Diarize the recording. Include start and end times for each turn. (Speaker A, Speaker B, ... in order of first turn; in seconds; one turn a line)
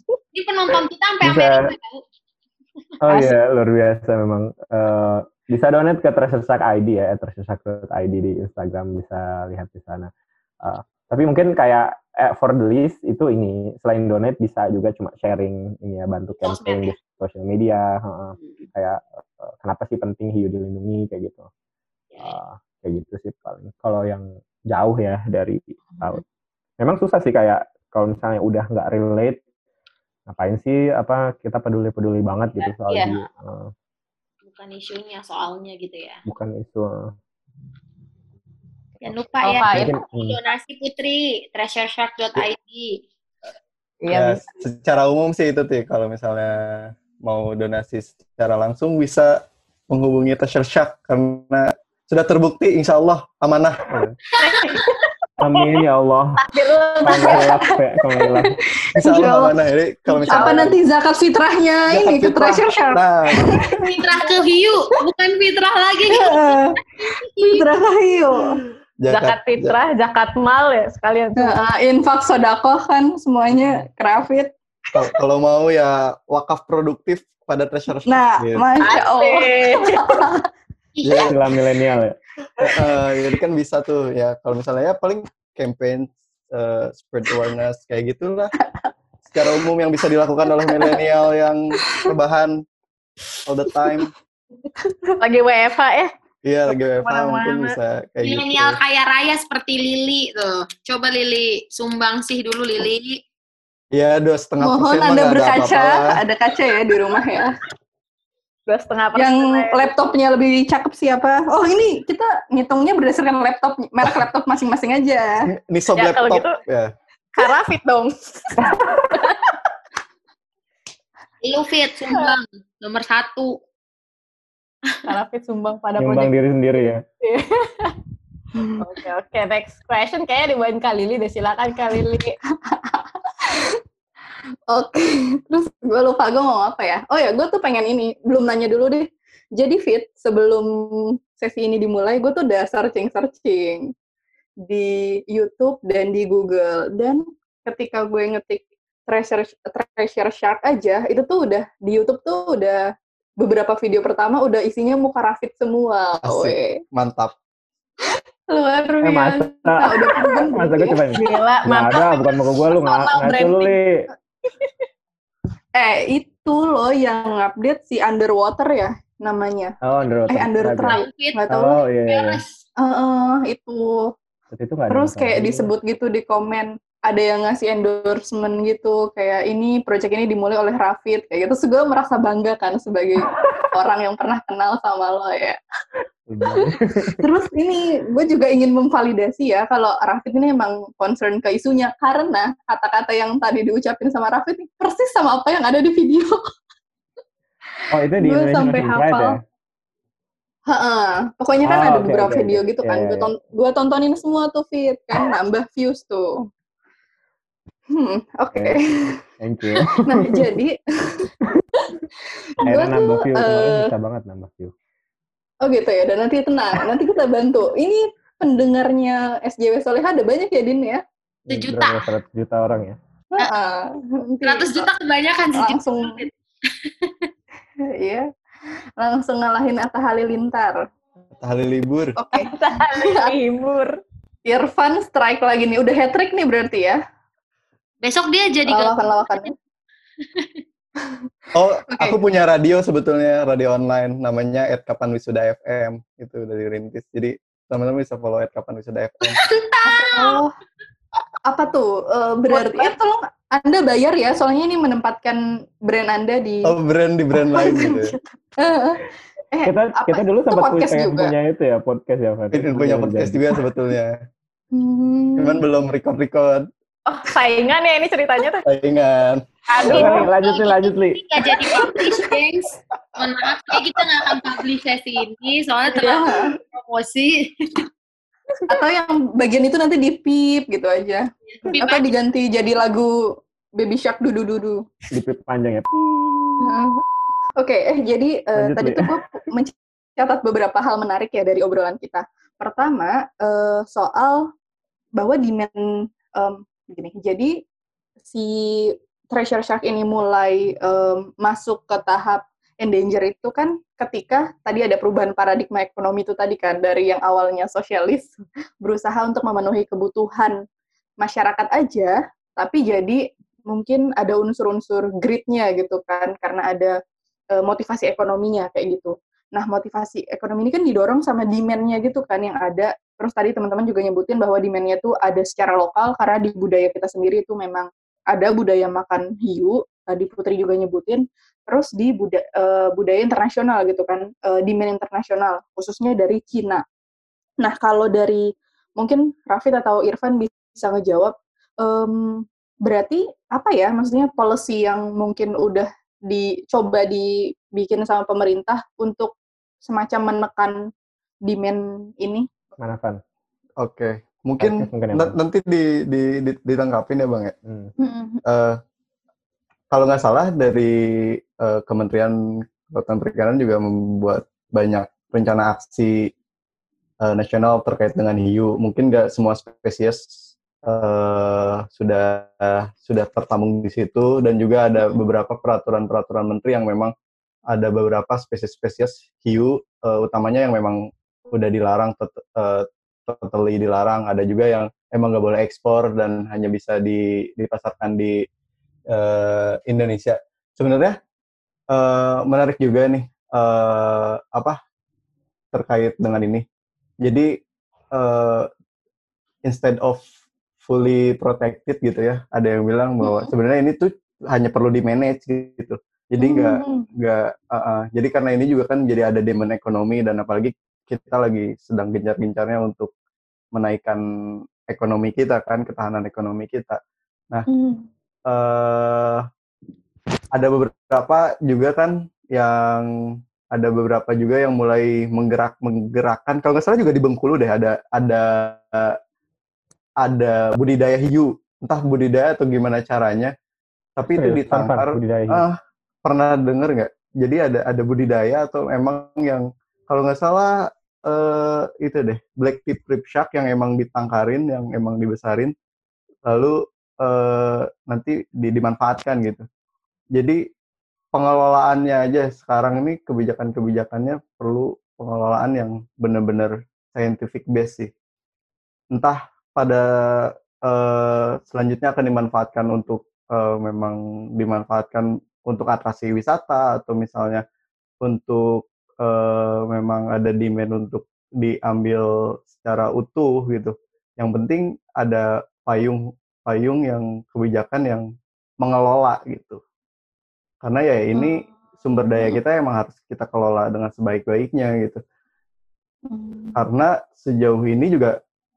Speaker A: 0.3-2.0
Speaker B: 1.2-1.7
Speaker B: 3.0-10.1
Speaker C: 3.1-3.4
Speaker B: 10.6-21.5
Speaker A: 16.4-16.9
Speaker A: 22.1-22.4
Speaker B: 22.2-26.2
Speaker B: 26.8-29.4
Speaker B: 30.3-33.7
Speaker A: 32.6-33.2
Speaker A: 34.4-36.2
Speaker B: 36.2-37.1
Speaker A: 39.0-43.0
Speaker C: 39.4-40.0
Speaker B: 39.7-40.4
Speaker C: 44.0-44.5
Speaker D: 44.1-49.3
Speaker D: 49.9-54.1
Speaker C: 54.4-54.9
Speaker A: 54.4-54.9
Speaker B: 55.4-56.4
Speaker C: 56.4-57.8
Speaker E: 57.0-57.6
Speaker B: 57.0-58.5
Speaker E: 58.8-59.5
Speaker D: 58.9-60.8
Speaker E: 60.3-63.9
Speaker C: 60.3-60.7
Speaker D: 61.9-63.8
Speaker A: 63.8-67.6
Speaker E: 66.1-66.8
Speaker E: 67.5-68.6
Speaker D: 69.0-69.8
Speaker C: 69.1-71.6
Speaker E: 71.4-75.2
Speaker D: 74.9-78.7
Speaker E: 78.1-80.5
Speaker C: 78.8-80.2
Speaker A: 81.0-81.3
Speaker D: 81.0-81.3
Speaker B: 81.3-82.2
Speaker D: 82.6-88.5
Speaker D: 89.3-92.5
Speaker E: 90.6-91.0
Speaker D: 93.4-94.1
Speaker C: 95.2-96.1
Speaker D: 96.4-98.8
Speaker C: 96.7-97.8
Speaker A: 98.2-103.2
Speaker D: 103.9-106.2
Speaker E: 104.6-107.6
Speaker C: 108.7-109.9
Speaker E: 109.2-115.5
Speaker D: 115.5-116.9
Speaker C: 115.9-116.6
Speaker C: 117.3-119.5
Speaker B: 118.6-119.3
Speaker A: 121.4-123.6
Speaker C: 125.0-126.3
Speaker B: 126.0-127.0
Speaker C: 127.2-128.0
Speaker C: 128.8-132.4
Speaker E: 132.7-133.8
Speaker E: 134.7-143.9
Speaker E: 144.6-152.8
Speaker E: 153.4-156.7
Speaker D: 156.2-157.3
Speaker E: 158.5-161.0
Speaker B: 159.0-164.1
Speaker C: 161.1-163.7
Speaker E: 165.7-169.8
Speaker B: 169.8-170.9
Speaker E: 170.3-171.8
Speaker A: 170.8-171.4
Speaker B: 171.5-172.4
Speaker A: 172.0-172.6
Speaker E: 172.8-174.1
Speaker B: 174.5-175.7
Speaker E: 174.9-185.6
Speaker B: 186.3-187.2
Speaker E: 186.4-196.4
Speaker B: 197.9-199.4
Speaker E: 198.2-199.4
Speaker E: 200.7-206.4
Speaker B: 201.6-203.3
Speaker E: 207.9-209.2
Speaker B: 208.5-208.8
Speaker B: 209.4-210.4
Speaker E: 209.9-212.0
Speaker E: 212.6-213.9
Speaker B: 212.7-214.7
Speaker E: 215.6-221.0
Speaker B: 221.5-223.0
Speaker A: 221.5-222.1
Speaker E: 223.4-224.9
Speaker A: 224.4-226.3
Speaker E: 225.5-226.2
Speaker A: 226.8-227.3
Speaker E: 227.8-228.3
Speaker E: 229.0-230.8
Speaker D: 231.4-232.2
Speaker E: 232.2-233.4
Speaker C: 232.3-233.9
Speaker E: 234.4-237.0
Speaker A: 238.0-239.5
Speaker E: 238.7-239.5
Speaker A: 240.3-240.6
Speaker D: 241.5-249.4
Speaker A: 249.3-250.4
Speaker E: 249.8-250.6
Speaker E: 251.5-256.7
Speaker D: 256.6-258.1
Speaker E: 257.3-261.3
Speaker B: 259.6-263.4
Speaker D: 262.5-264.2
Speaker E: 264.7-265.6
Speaker D: 265.4-266.7
Speaker C: 267.1-268.6
Speaker D: 268.6-270.2
Speaker A: 269.7-277.9
Speaker C: 269.8-270.2
Speaker B: 269.9-271.2
Speaker D: 273.7-274.0
Speaker E: 275.9-276.5
Speaker E: 278.7-284.8
Speaker A: 281.5-282.1
Speaker B: 285.1-286.7
Speaker E: 286.6-287.0
Speaker E: 287.6-294.5
Speaker B: 288.6-289.1
Speaker E: 295.1-297.6
Speaker E: 298.3-310.6
Speaker E: 311.2-317.0
Speaker E: 317.5-336.8
Speaker E: 337.6-338.5
Speaker E: 339.0-350.8
Speaker E: 351.4-352.5
Speaker B: 352.8-353.2
Speaker D: 353.8-357.5
Speaker B: 354.6-355.4
Speaker B: 357.6-357.9
Speaker E: 358.0-358.4
Speaker D: 358.4-358.8
Speaker D: 359.9-366.3
Speaker D: 367.2-370.3
Speaker D: 370.8-377.1
Speaker D: 377.7-388.4
Speaker D: 389.1-391.2
Speaker D: 391.9-394.8
Speaker D: 395.7-396.6
Speaker D: 397.2-397.5
Speaker D: 398.1-398.7
Speaker D: 399.6-400.2
Speaker D: 400.8-413.1
Speaker E: 403.2-403.5
Speaker E: 406.4-407.1
Speaker D: 413.7-414.2
Speaker D: 414.9-417.0
Speaker E: 417.7-418.1
Speaker D: 418.5-419.5
Speaker D: 420.5-429.2
Speaker D: 430.2-433.5
Speaker D: 434.2-445.7
Speaker B: 434.4-435.6
Speaker D: 446.5-449.6
Speaker D: 450.3-450.6
Speaker D: 451.3-458.1
Speaker D: 459.1-467.6
Speaker D: 468.2-478.2
Speaker D: 478.8-479.8
Speaker D: 480.8-485.2
Speaker E: 481.3-481.6
Speaker E: 486.2-486.8
Speaker D: 486.8-488.4